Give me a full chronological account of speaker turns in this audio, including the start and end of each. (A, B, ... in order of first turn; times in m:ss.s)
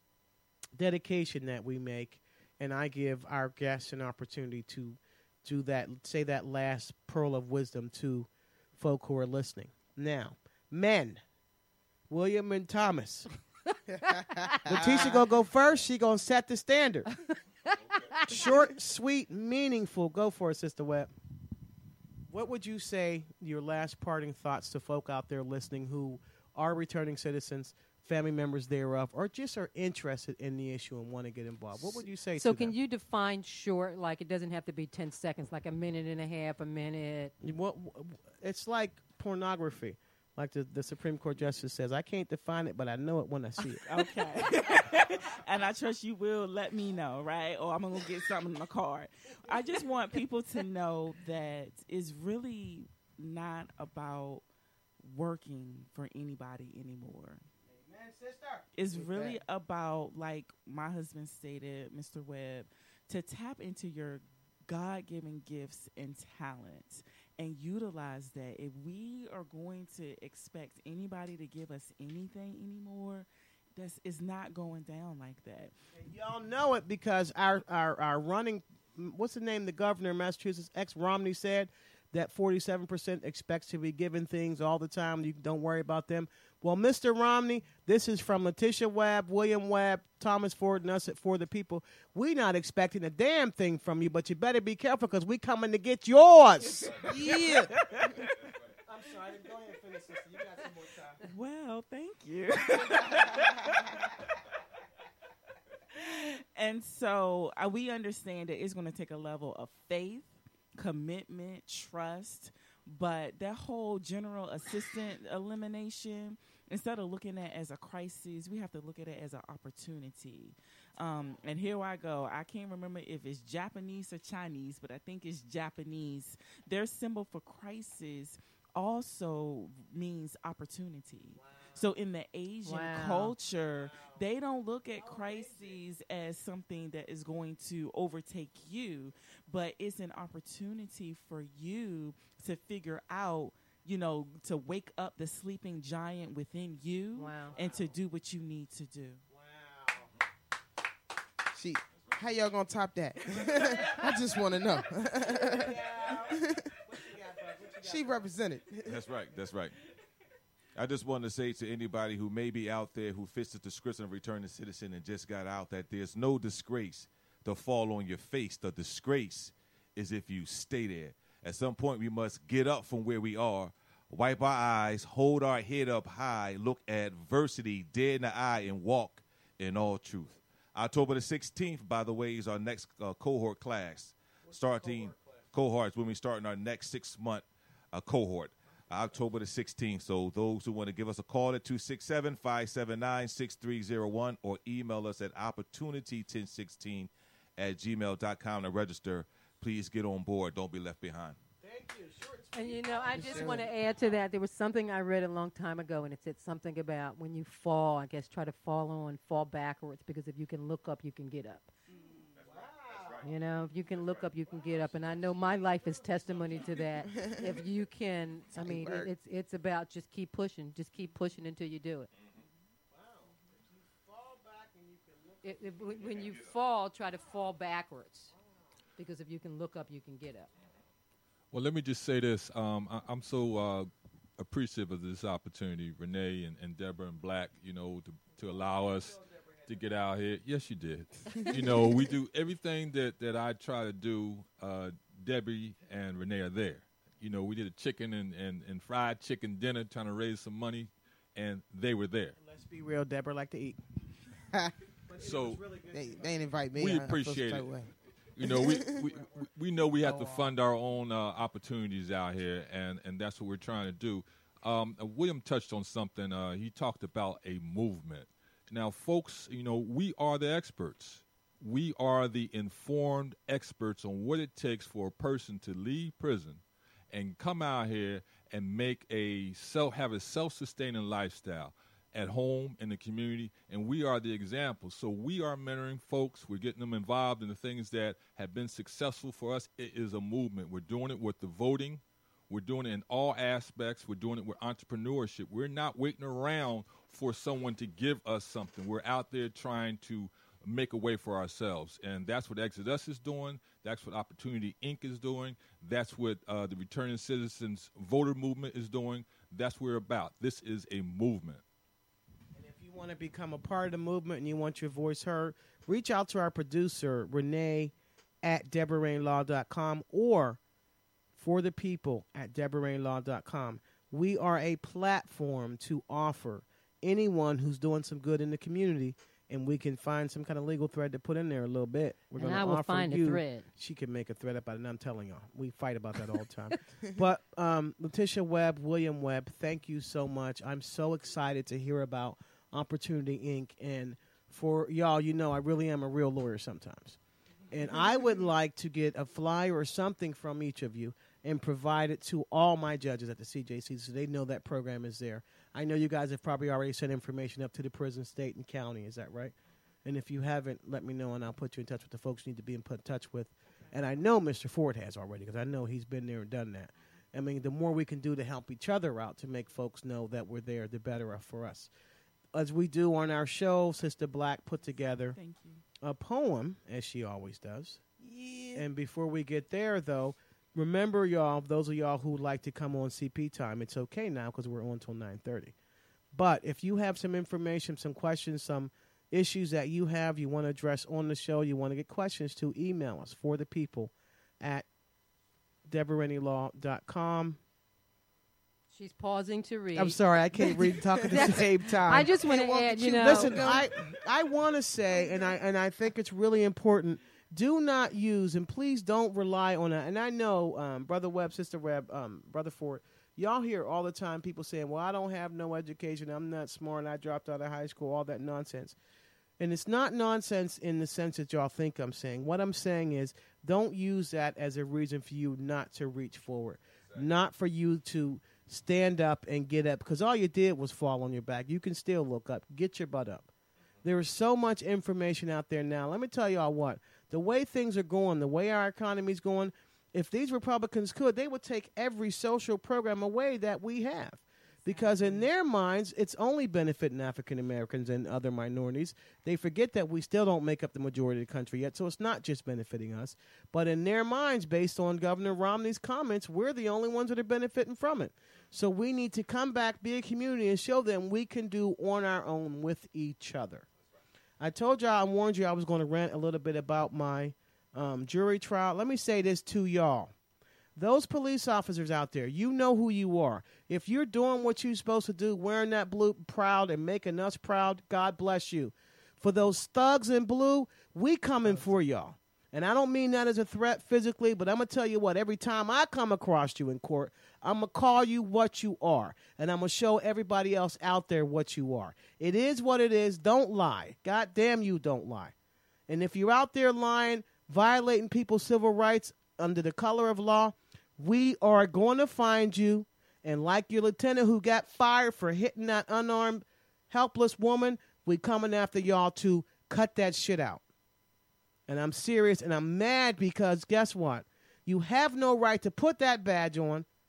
0:00.8-0:11.2 A
0:12.1-0:13.3 A
0:13.9-0:15.2 B
0:14.6-0:17.1 A
0:18.2-0:21.1 A
0:22.3-0:32.8 A
0:32.4-0:37.3 C
0:37.4-0:43.9 A
0:43.8-0:54.4 D
0:55.0-0:57.5 D
0:57.6-0:59.4 A
0:58.8-1:15.7 D
1:16.0-1:37.7 A
1:36.9-1:37.7 B
1:37.7-1:38.3 D
1:38.9-1:41.2 A
1:41.2-1:43.7 D
1:45.9-2:29.2 D
2:11.4-2:11.8 A
2:12.6-2:13.3 C
2:13.9-2:14.2 A
2:15.0-2:15.8 A
2:27.2-2:27.6 C
2:29.3-2:30.1 A
2:31.6-2:36.7 B
2:33.3-2:34.1 A
2:35.2-2:38.2 A
2:37.8-2:39.0 B
2:38.8-2:39.8 E
2:40.8-3:21.4 E
3:04.5-3:05.3 A
3:21.6-3:23.7 A
3:22.5-3:31.7 C
3:23.2-3:23.6 B
3:32.4-3:33.2 A
3:32.4-3:33.2 E
3:33.2-3:42.1 C
3:34.4-3:36.8 A
3:37.1-3:37.6 B
3:38.6-3:39.1 B
3:42.9-3:45.8 A
3:45.4-3:48.3 C
3:49.0-3:50.5 C
3:51.5-4:12.4 F
3:59.0-3:59.7 A
4:12.4-4:13.8 A
4:15.1-4:16.4 A
4:15.2-4:15.6 F
4:15.9-4:17.9 B
4:16.8-4:17.7 F
4:18.4-5:11.6 F
4:18.4-4:19.0 B
4:20.1-4:20.5 B
5:12.6-5:20.6 A
5:21.4-5:47.2 A
5:32.4-5:33.7 C
5:47.7-6:11.9 A
6:12.5-6:15.4 A
6:15.3-6:15.8 D
6:16.0-6:18.0 A
6:18.2-6:18.8 B
6:18.8-6:25.8 A
6:26.3-6:34.9 A
6:35.9-6:37.6 A
6:38.9-6:43.7 C
6:40.0-6:42.3 A
6:42.3-6:43.9 B
6:43.2-6:59.0 A
6:45.1-6:45.6 B
6:59.6-7:13.5 A
7:14.0-7:43.9 A
7:24.8-7:25.5 D
7:44.6-7:50.3 A
7:51.0-8:15.5 A
8:16.1-8:30.8 A
8:31.9-8:37.1 A